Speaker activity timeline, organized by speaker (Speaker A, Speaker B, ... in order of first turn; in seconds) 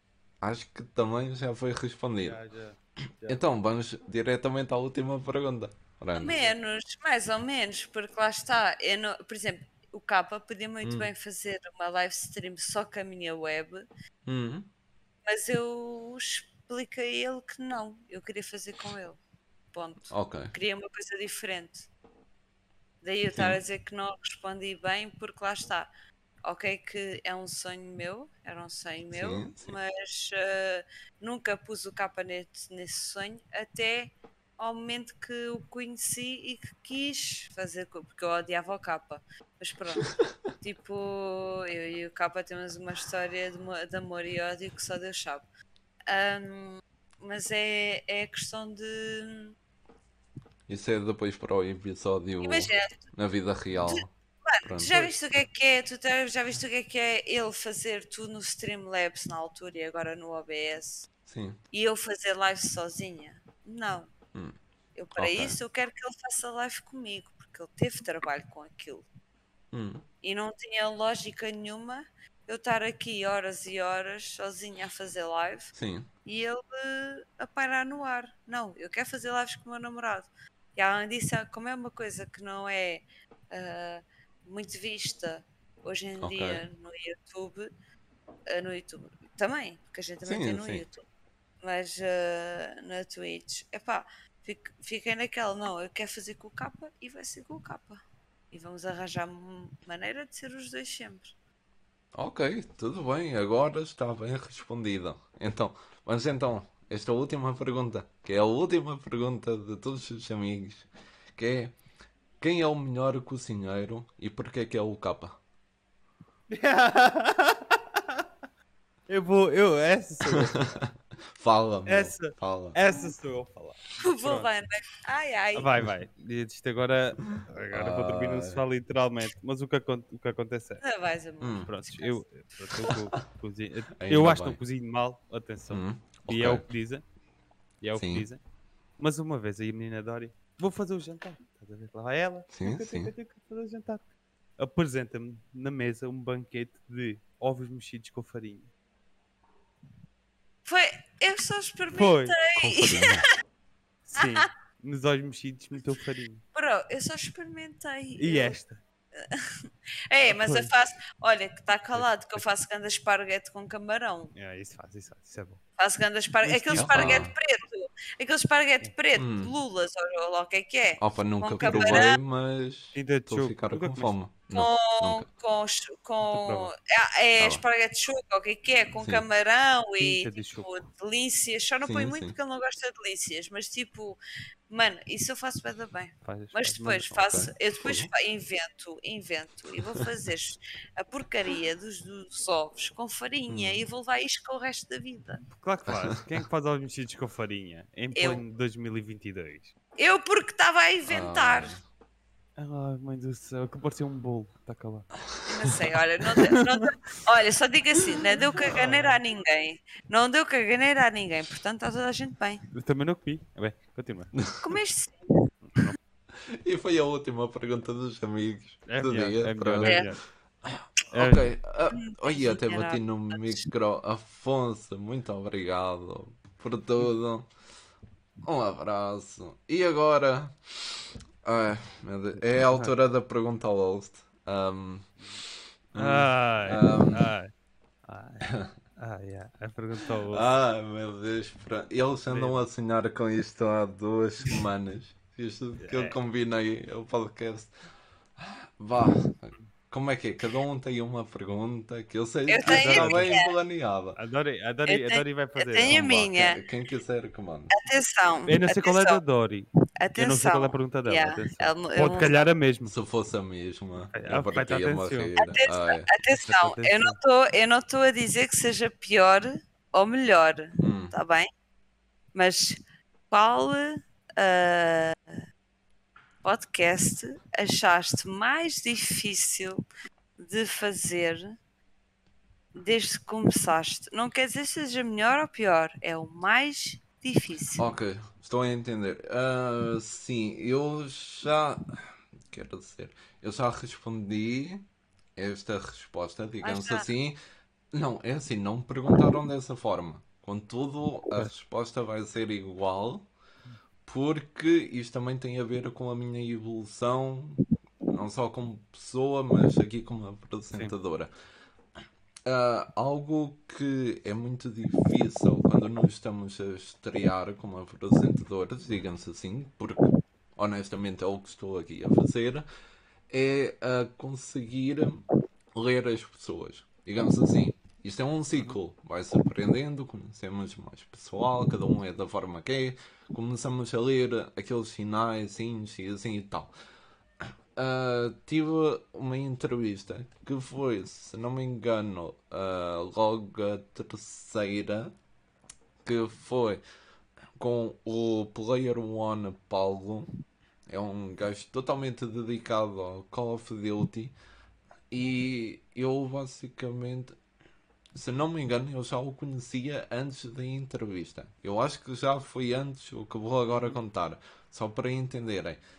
Speaker A: 0.4-2.4, 3.3-6.3, 10.8-11.1, 14.2-14.7, 20.1-20.5, 29.1-29.8, 40.0-40.3, 50.7-54.1, 54.6-55.4, 61.2-61.6, 65.2-65.6, 69.7-70.0, 75.7-76.1, 86.2-86.6, 90.2-90.8, 102.1-111.8, 112.4-115.4, 120.3-122.8, 127.7-128.6, 131.4-131.7, 134.0-134.6, 135.7-136.7, 137.9-138.3, 142.5-143.1, 152.6-153.3, 166.8-167.3, 169.1-169.5, 171.0-175.3, 181.8-182.3, 187.2-188.1, 193.5-193.8, 195.9-196.2, 201.1-201.8, 216.5-220.1, 220.6-227.5, 228.4-235.1, 235.9-237.3, 238.5-238.7, 240.3-247.7, 248.4-254.2, 255.8-257.7, 262.9-266.1, 270.8-271.1, 287.8-297.4, 297.9-303.3, 304.1-311.3, 312.4-322.6, 323.3-336.7, 337.4-345.1, 346.0-346.8, 347.6-350.3, 350.9-354.3, 355.1-357.4, 358.1-365.8
Speaker B: 2.2-3.4, 6.3-6.5, 116.5-118.2, 119.1-120.7, 121.8-124.5, 125.5-130.8, 131.7-137.0, 137.8-138.4, 139.0-144.1, 144.6-148.7, 151.9-152.4, 154.1-156.4, 158.2-158.8, 160.2-160.7, 161.9-162.4, 164.3-165.6, 166.4-167.2, 171.6-172.0, 172.9-174.1, 176.3-176.7, 180.0-180.7, 186.2-187.2, 195.5-199.7, 202.6-205.1, 206.4-206.9, 208.4-209.2, 212.7-214.4, 215.7-215.9, 218.9-220.2, 221.1-221.5, 232.5-232.9, 235.9-237.5, 238.0-240.5, 242.3-242.6, 245.8-246.2, 252.7-253.4, 254.2-256.1, 258.5-262.9, 264.1-265.3, 266.4-267.2
Speaker C: 6.2-13.8, 15.2-19.2, 19.7-21.9, 23.0-25.9, 26.4-45.4, 46.1-49.5, 52.4-53.0, 53.9-61.1, 61.7-64.1, 65.0-69.0, 70.2-75.7, 76.2-87.7, 88.5-91.0, 91.6-101.3, 124.0-125.7, 130.8-132.2, 150.6-153.2, 156.5-158.6, 159.2-164.3, 165.8-172.2, 174.5-184.2, 184.7-195.4, 198.1-198.4, 200.0-201.8, 205.4-212.6, 214.6-215.4, 219.8-220.1, 221.9-223.6, 252.5-253.5, 254.9-256.6, 257.7-259.2, 260.0-262.3, 265.4-271.5, 272.3-272.8, 273.3-275.2, 276.4-279.8, 280.4-281.5, 282.8-287.9, 296.6-297.1